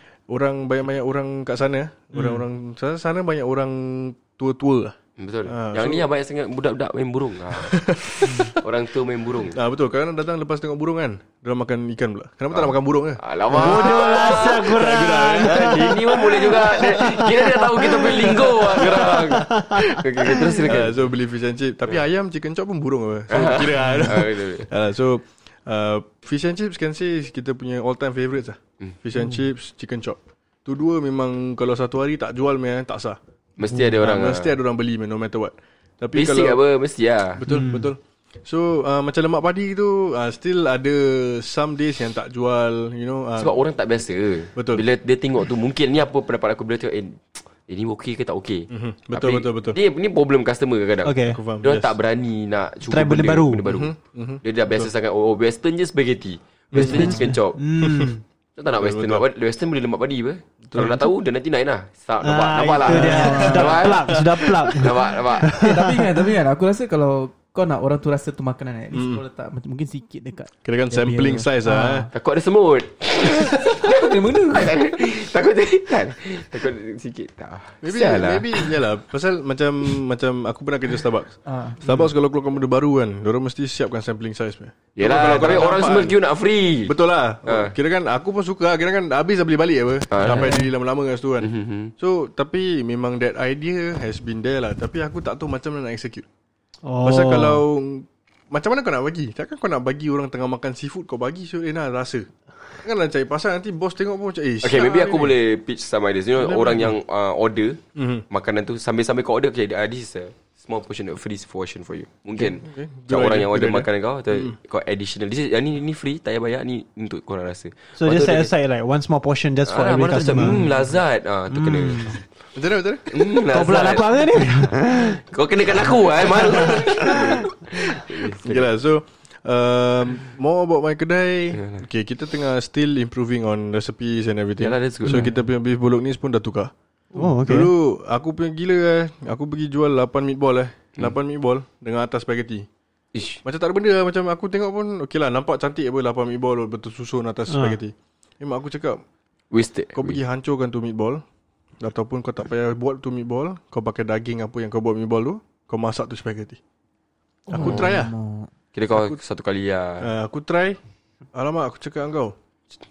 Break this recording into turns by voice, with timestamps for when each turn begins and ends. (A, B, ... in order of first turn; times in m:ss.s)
0:00.3-0:05.0 A
0:02.2-0:02.4 B
0:05.2-0:09.6 C
0:05.5-0:06.0 A
0:07.5-0:08.6 A
0:09.5-0:19.4 A
0:12.5-0:14.8 C
0:13.5-0:20.5 B
0:15.4-0:21.0 C
0:20.6-0:33.2 A
0:23.3-0:24.7 C
0:33.6-0:34.6 C
0:34.0-0:36.6 A
0:36.1-0:37.4 C
0:37.4-0:43.6 A
0:37.5-0:37.9 B
0:43.4-0:57.6 C
0:44.6-0:44.8 A
0:48.7-0:49.8 A
0:51.0-0:51.4 B
0:51.3-0:51.9 A
0:52.9-0:53.6 B
0:53.6-0:54.9 A
0:56.7-0:58.1 A
0:56.8-0:58.2 B
0:56.8-0:57.4 D
0:58.6-1:05.6 C
0:58.8-0:59.2 A
1:00.6-1:01.1 A
1:02.2-1:06.0 B
1:02.8-1:04.0 D
1:03.3-1:04.5 A
1:05.5-1:12.1 D
1:08.9-1:09.2 A
1:10.6-1:12.1 A
1:12.1-1:18.8 C
1:13.2-1:14.9 D
1:17.8-1:26.2 A
1:21.4-1:21.8 D
1:25.0-1:27.7 C
1:26.8-1:36.2 A
1:30.1-1:30.6 C
1:30.2-1:30.6 D
1:31.4-1:31.9 C
1:36.8-1:37.6 B
1:37.0-1:42.3 A
1:42.8-1:45.4 A
1:44.6-1:47.8 C
1:46.4-1:46.9 A
1:47.9-1:48.2 A
1:48.3-1:58.5 C
1:52.4-1:54.6 A
1:58.0-2:00.7 B
1:59.6-2:02.2 C
2:01.5-2:02.2 B
2:02.5-2:03.1 A
2:03.1-2:04.4 C
2:03.5-2:05.2 B
2:05.2-2:08.6 C
2:06.2-2:08.0 B
2:06.5-2:07.2 A
2:08.2-2:16.7 A
2:11.5-2:11.8 C
2:14.6-2:15.3 C
2:17.1-2:17.7 B
2:17.4-2:22.7 A
2:23.1-2:23.4 C
2:23.4-2:29.0 A
2:27.5-2:27.8 B
2:29.5-2:30.2 C
2:29.9-2:31.2 A
2:31.8-2:36.6 A
2:37.5-2:38.1 A
2:37.5-2:38.5 D
2:37.6-2:37.9 C
2:38.7-2:40.1 C
2:38.9-2:39.2 A
2:40.0-2:40.8 A
2:41.3-2:42.3 A